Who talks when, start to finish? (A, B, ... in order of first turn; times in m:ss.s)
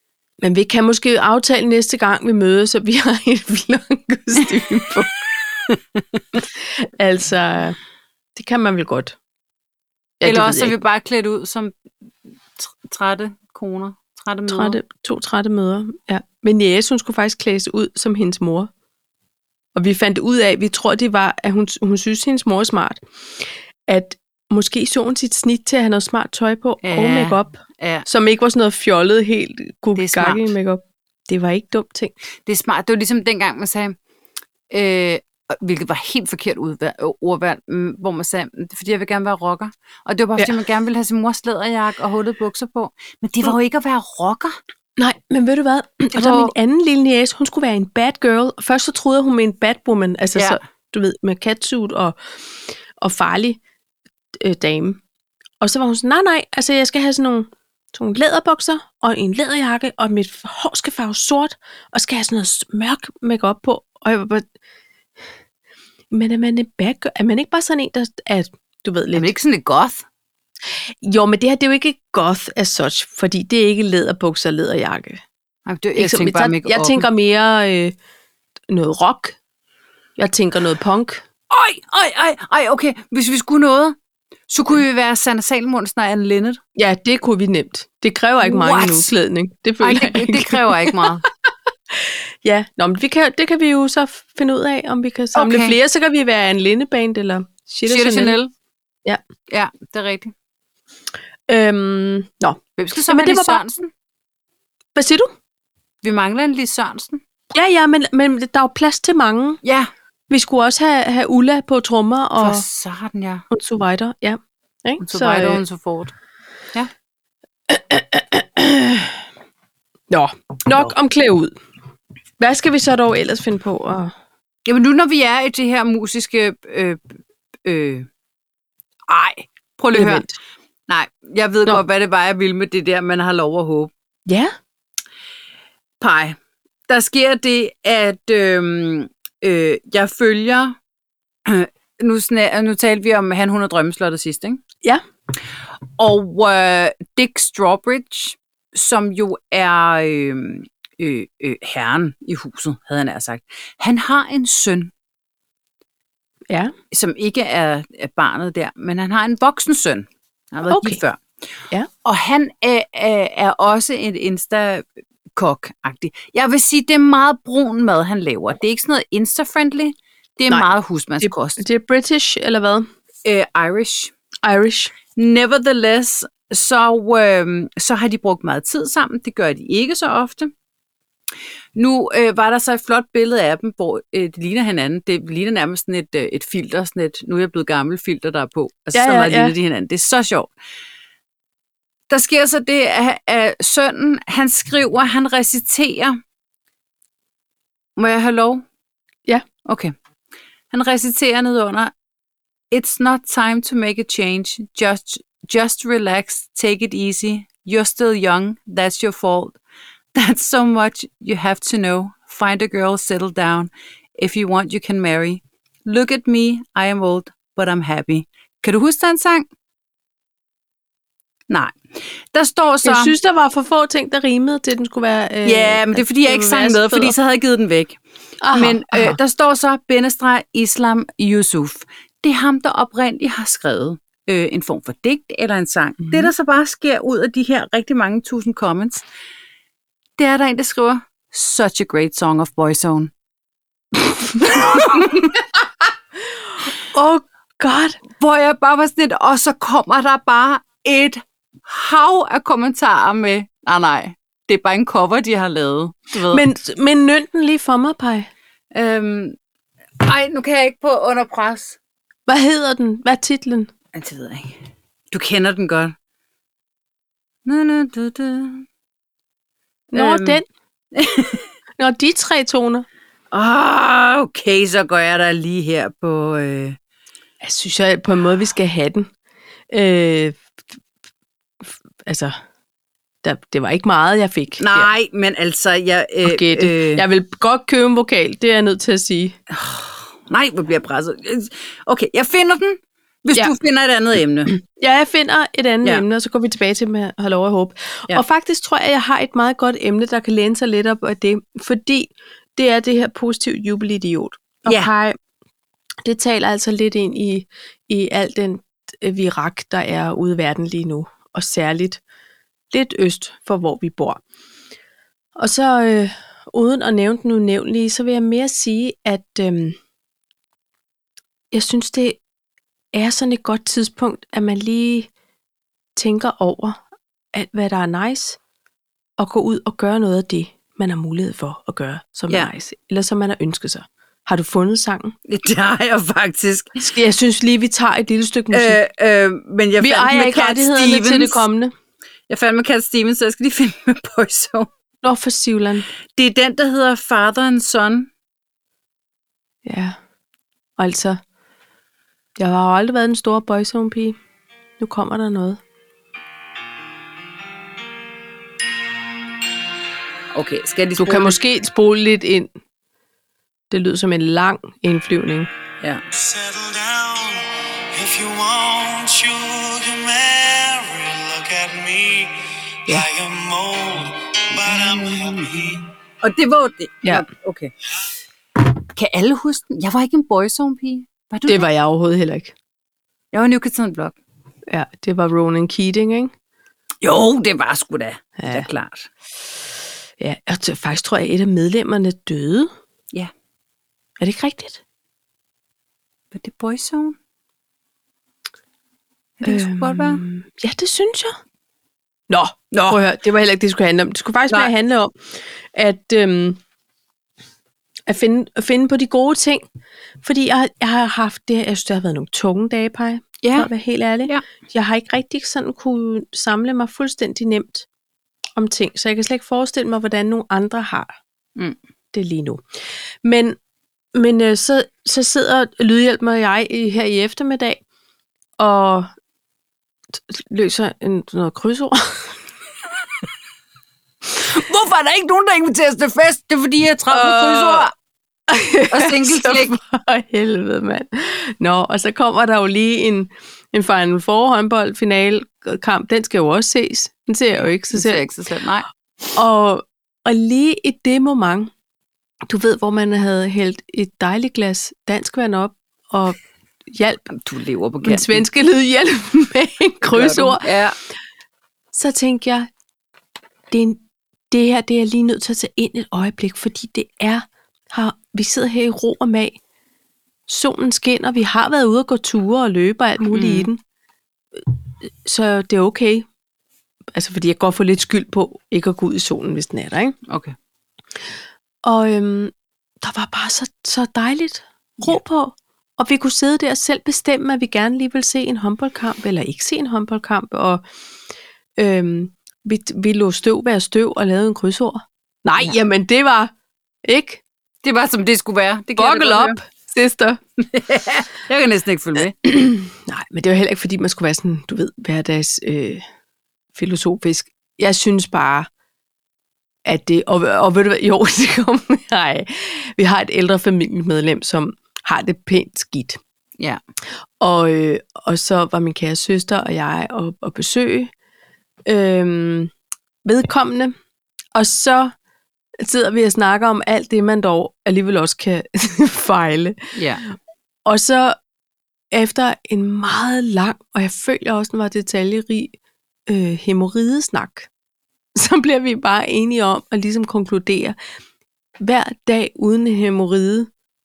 0:00.4-0:05.2 A
0:05.7-0:06.0 B
0:06.6-0:07.8 A
0:08.4-0:09.2 A
0:10.2-0:10.8 A
0:10.2-0:11.8 B
0:12.6-0:14.8 B
0:14.5-0:18.7 A
0:19.8-0:32.1 A
0:26.8-0:28.1 B
0:30.0-0:30.5 B
0:32.5-0:34.0 B
0:34.7-0:44.6 B
0:45.0-0:52.2 A
0:46.1-0:46.5 B
0:53.0-0:53.6 A
0:54.4-0:55.0 A
0:55.6-1:04.5 A
1:06.1-1:09.3 A
1:09.1-1:10.0 B
1:11.0-1:15.2 A
1:15.7-1:17.1 B
1:16.0-1:18.0 A
1:18.7-1:19.4 A
1:20.2-1:21.2 A
1:21.5-1:24.0 B
1:24.5-1:26.6 B
1:26.8-1:31.0 A
1:28.4-1:29.1 B
1:29.8-1:31.3 B
1:31.9-1:38.4 A
1:35.4-1:35.8 B
1:37.9-1:38.5 B
1:39.5-1:40.3 B
1:41.5-1:43.6 A
1:42.8-1:43.9 B
1:45.0-1:45.3 A
1:46.0-1:47.2 B
1:47.5-1:49.6 A
1:49.6-1:49.9 B
1:50.3-1:52.6 A
1:52.4-1:53.4 B
1:53.5-1:55.6 A
1:55.0-1:56.1 B
1:57.7-1:59.2 A
2:00.1-2:01.5 A
2:02.4-2:04.1 A
2:04.7-2:07.0 B
2:07.6-2:08.1 B
2:09.1-2:10.2 B
2:09.9-2:10.4 A
2:10.9-2:13.9 B
2:14.3-2:14.5 A
2:16.0-2:16.4 B
2:16.9-2:20.8 B
2:21.5-2:24.6 B
2:26.0-2:34.9 B
2:36.9-2:41.2 B
2:40.7-2:41.0 A
2:42.0-2:51.6 B
2:51.2-2:52.9 A
2:53.2-2:54.1 B
2:54.4-2:54.9 A
2:55.2-3:00.5 B
3:01.8-3:10.5 B
3:08.9-3:09.5 A
3:12.1-3:16.2 B
3:18.0-3:18.6 B
3:19.6-3:19.9 B
3:20.7-3:21.9 B
3:22.7-3:29.6 B
3:30.2-3:39.5 B
3:41.5-3:43.1 B
3:42.8-3:47.2 A
3:45.4-3:48.0 B
3:48.4-3:49.2 A
3:48.5-3:59.0 B
4:00.2-4:03.1 B
4:04.3-4:05.4 B
4:04.5-4:05.0 A
4:06.8-4:08.0 A
4:08.2-4:16.4 B
4:16.3-4:18.3 A
4:18.7-4:19.4 B
4:20.0-4:21.8 B
4:22.3-4:23.7 A
4:23.9-4:24.6 B
4:25.1-4:26.0 B
4:27.5-4:28.7 B
4:29.9-4:30.4 A
4:29.9-4:30.4 B
4:30.9-4:31.5 B
4:31.8-4:32.9 A
4:33.3-4:36.8 B
4:37.4-4:39.1 A
4:39.7-4:40.4 A
4:41.6-4:42.4 A
4:43.2-4:44.9 A
4:44.6-4:47.0 B
4:46.2-4:49.4 A
4:49.5-4:54.5 B
4:54.5-5:05.2 A
5:06.0-5:12.0 A
5:12.7-5:14.2 A
5:15.4-5:19.8 A
5:21.5-5:22.2 A
5:22.9-5:25.1 A
5:26.0-5:26.8 A
5:27.3-5:28.4 A
5:29.2-5:35.2 A
5:35.3-5:36.8 B
5:36.8-5:38.8 A
5:38.5-5:41.4 B
5:39.8-5:41.7 A
5:42.3-5:44.7 B
5:45.0-5:45.9 A
5:46.2-5:48.1 B
5:49.6-5:50.0 A
5:50.8-5:51.2 A
5:52.4-5:54.2 A
5:54.8-5:55.6 A
6:00.4-6:01.4 B
6:01.0-6:02.5 A
6:03.7-6:05.5 A
6:06.1-6:15.9 C
6:14.7-6:15.5 B
6:16.2-6:17.7 B
6:19.0-6:21.7 B
6:21.5-6:22.5 A
6:23.3-6:24.2 B
6:24.7-6:26.3 A
6:27.0-6:29.1 B
6:28.4-6:28.7 A
6:30.2-6:32.7 A
6:34.2-6:34.8 A
6:36.3-6:37.2 B
6:39.4-6:40.2 B
6:39.4-6:41.4 A
6:42.3-6:46.6 A
6:42.7-6:43.0 B
6:48.1-6:49.7 A
6:50.2-6:57.9 A
6:53.4-6:53.7 B
6:58.6-7:01.2 A
7:02.1-7:02.6 A
7:03.2-7:03.6 A
7:04.1-7:07.8 A
7:08.6-7:09.1 A
7:10.1-7:12.4 A
7:14.4-7:17.9 B
7:17.1-7:17.9 A
7:18.5-7:28.2 A
7:18.9-7:19.8 B
7:27.9-7:28.9 B
7:29.3-7:31.7 A
7:32.5-7:37.3 A
7:37.3-7:38.4 B
7:38.0-7:40.7 A
7:40.1-7:41.0 B
7:41.9-7:42.7 A
7:43.7-7:49.6 A
7:50.5-7:53.8 A
7:53.3-7:53.7 B
7:54.6-7:56.3 A
7:57.1-8:00.2 A
8:00.3-8:00.6 B
8:01.8-8:10.8 A
8:11.8-8:16.5 A
8:17.0-8:17.4 A
8:17.8-8:19.6 B
8:19.0-8:20.4 A
8:20.6-8:22.4 B
8:22.4-8:26.0 A
8:26.8-8:28.7 A
8:29.9-8:36.2 A
8:37.4-8:41.1 A
8:41.9-8:42.7 A
8:43.2-8:44.0 A
8:44.5-8:45.1 A
8:45.8-8:49.9 A
8:49.9-8:50.2 B
8:50.8-8:51.4 A
8:52.1-8:55.7 A
8:56.3-8:57.7 A
8:58.4-9:01.0 A
9:01.8-9:03.7 A